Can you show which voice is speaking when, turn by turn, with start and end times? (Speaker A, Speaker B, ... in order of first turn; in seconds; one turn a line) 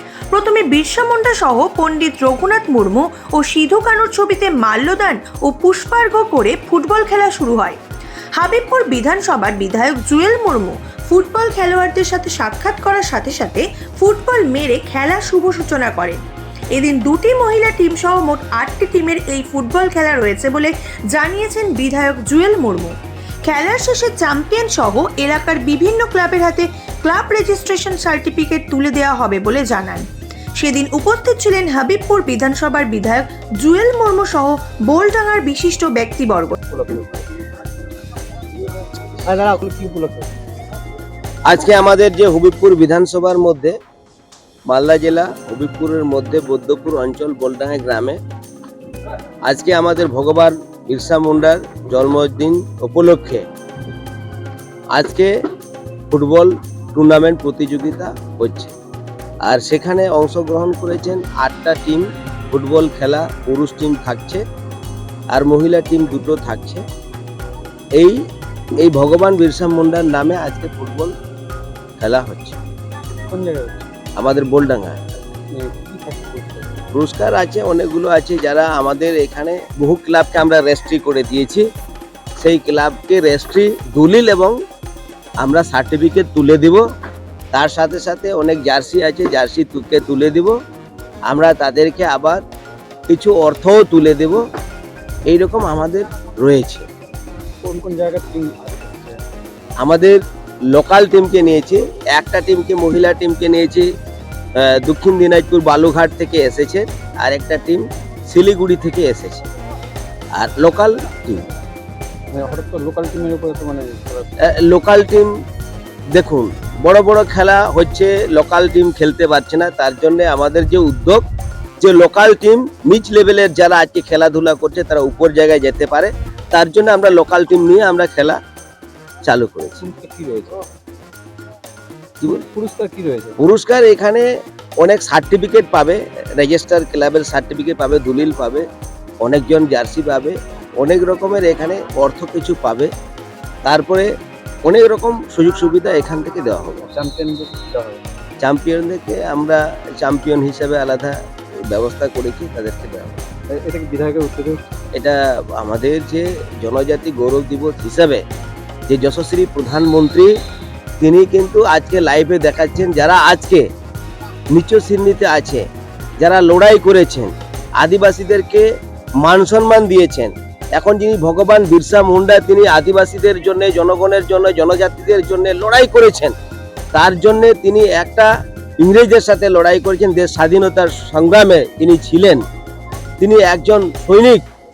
Speaker A: 0.3-7.8
Speaker A: 8.4-16.2
Speaker A: 16.7-22.9
Speaker A: 23.4-30.1
Speaker A: 30.6-36.6
Speaker B: 36.7-37.4
Speaker B: 39.2-40.3
Speaker C: 41.5-43.7
Speaker C: 44.7-48.2
Speaker C: 49.5-53.4
Speaker C: 54.9-55.3
Speaker C: 56.1-58.7
Speaker C: 59.4-64.4
Speaker C: 65.3-66.8
Speaker C: 68.8-71.1
Speaker C: 72.0-72.6
Speaker B: 73.3-73.9
Speaker C: 74.2-75.0
Speaker B: 75.5-76.8
Speaker C: 76.9-81.7
Speaker C: 82.4-84.6
Speaker C: 85.4-86.8
Speaker C: 87.5-90.5
Speaker C: 91.3-92.4
Speaker C: 93.1-94.4
Speaker C: 95.3-96.8
Speaker B: 97.6-99.2
Speaker C: 99.8-100.2
Speaker C: 100.7-103.8
Speaker C: 104.6-109.4
Speaker C: 110.3-111.5
Speaker B: 112.3-114.3
Speaker C: 114.4-115.3
Speaker C: 116.1-121.2
Speaker C: 121.8-128.4
Speaker C: 129.2-129.8
Speaker B: 129.8-130.6
Speaker B: 132.2-133.3
Speaker C: 133.4-134.2
Speaker C: 134.8-138.6
Speaker C: 139.2-142.9
Speaker C: 143.6-144.1
Speaker C: 144.7-146.8
Speaker B: 146.8-148.0
Speaker C: 148.4-151.2
Speaker C: 151.7-153.2
Speaker B: 153.5-154.7
Speaker C: 154.9-158.2
Speaker C: 158.9-160.3
Speaker C: 161.0-163.6
Speaker C: 164.5-165.6
Speaker C: 166.2-168.6
Speaker C: 169.2-176.3
Speaker C: 176.9-178.3
Speaker C: 178.8-182.4
Speaker C: 183.2-184.4